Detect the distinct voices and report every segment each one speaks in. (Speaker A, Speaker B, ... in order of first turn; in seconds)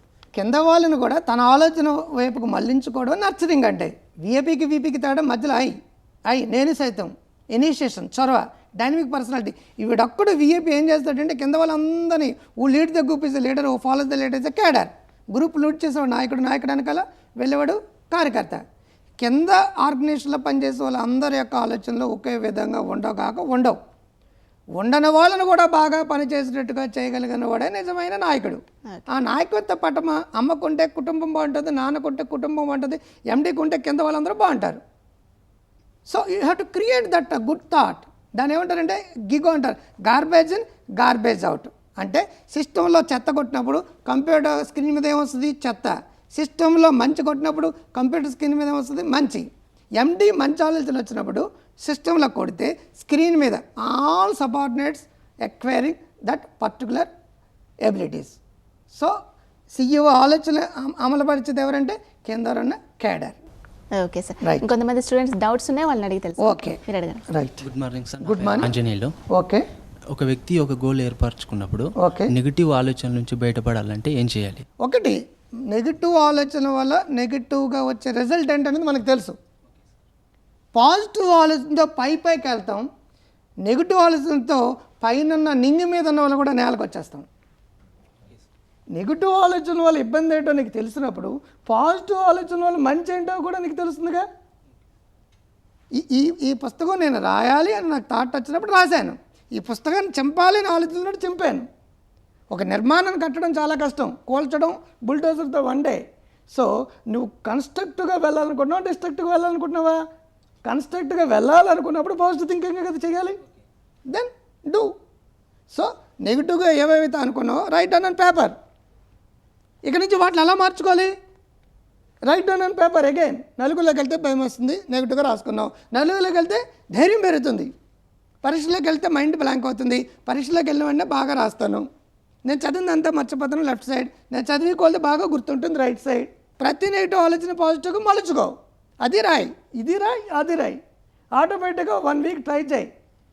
Speaker A: 0.3-5.7, 6.3-18.6, 19.2-23.8, 24.8-34.8, 36.1-49.5, 50.0-57.1, 57.8-58.4, 59.7-63.4, 66.4-67.6, 68.2-68.7, 69.3-69.7, 72.0-72.3, 74.8-75.2, 75.7-79.3, 80.7-82.8, 83.6-87.3, 88.9-94.2, 95.9-101.7, 102.5-106.0, 106.5-110.0, 110.6-113.4, 114.1-114.9, 115.7-118.5, 119.8-121.1, 122.2-127.7, 128.4-131.8, 132.4-140.8, 141.3-142.9
Speaker B: 64.0-67.2
Speaker C: 67.6-69.1, 70.1-74.6